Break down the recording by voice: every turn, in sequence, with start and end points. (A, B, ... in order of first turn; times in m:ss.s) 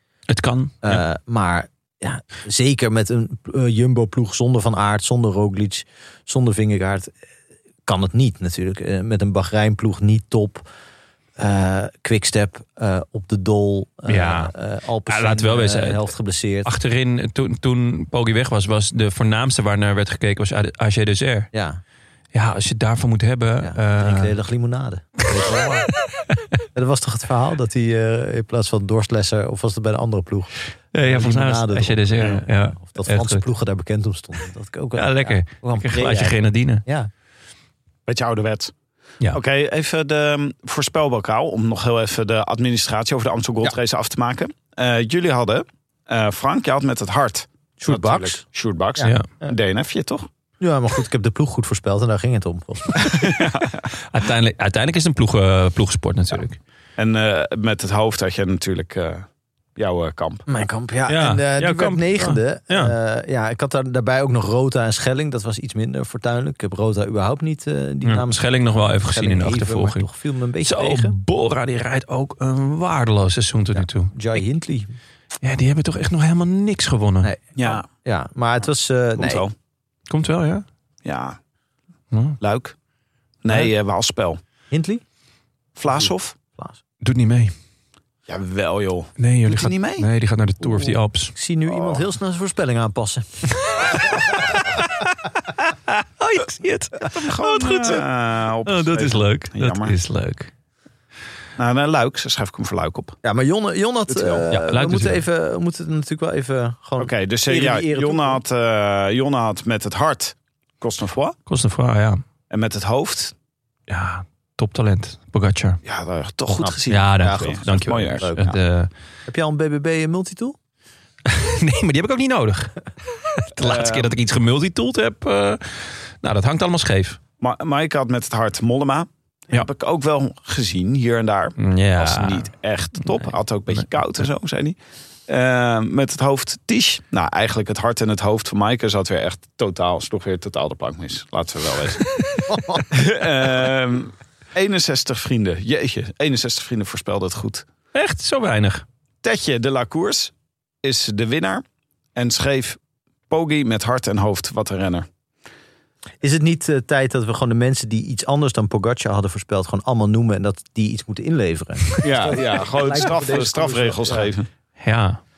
0:00.3-0:01.0 A
0:00.8-0:07.1 B
0:07.8-0:10.6 B
0:11.4-0:16.7 B
0:14.1-0:14.5 A
0:15.1-0:16.1 A
0:16.6-0:21.5 A
0:21.5-0:21.8 B
0:22.3-0:24.3 A
0:23.6-0:25.9 B
0:26.7-0:37.1 B
0:30.9-0:33.4 A
0:35.0-0:36.8 A
0:38.1-0:38.7 C
0:39.3-0:50.3 C
0:47.8-0:48.4 B
0:49.0-0:49.5 B
0:50.6-0:53.3 B
0:53.1-0:53.8 C
0:54.1-0:56.6 A
0:57.0-1:00.4 C
1:00.5-1:11.2 B
1:01.1-1:02.9 A
1:08.0-1:10.1 A
1:10.6-1:14.1 A
1:13.7-1:15.0 B
1:15.4-1:17.3 A
1:17.2-1:19.4 B
1:17.6-1:17.9 C
1:19.2-1:19.5 C
1:20.1-1:20.6 A
1:21.0-1:21.4 C
1:22.1-1:22.4 A
1:22.4-1:22.7 C
1:23.4-1:24.4 C
1:24.7-1:25.0 B
1:25.8-1:26.4 C
1:25.9-1:26.8 B
1:27.0-1:27.5 A
1:28.3-1:30.1 C
1:29.2-1:31.3 A
1:30.7-1:34.0 B
1:31.7-1:32.0 C
1:34.3-1:38.0 A
1:37.1-1:40.0 C
1:38.6-1:40.5 A
1:41.6-1:43.2 C
1:43.2-1:48.4 B
1:44.1-1:44.4 C
1:44.5-1:45.2 A
1:47.0-1:51.4 C
1:51.5-1:52.2 A
1:52.5-1:53.3 C
1:53.9-1:55.8 A
1:55.8-1:58.4 C
1:56.6-1:58.6 B
1:56.9-1:58.9 A
1:59.3-2:00.6 B
2:01.2-2:02.7 A
2:03.3-2:07.2 A
2:03.6-2:04.1 C
2:07.4-2:14.8 C
2:11.6-2:12.5 A
2:13.1-2:13.8 A
2:15.3-2:22.1 C
2:22.5-2:22.8 B
2:22.9-2:27.6 C
2:27.9-2:28.8 A
2:29.2-2:30.3 C
2:30.8-2:31.6 C
2:32.2-2:32.8 C
2:33.3-2:35.1 C
2:36.2-2:44.3 B
2:42.0-2:44.5 C
2:44.8-2:45.2 A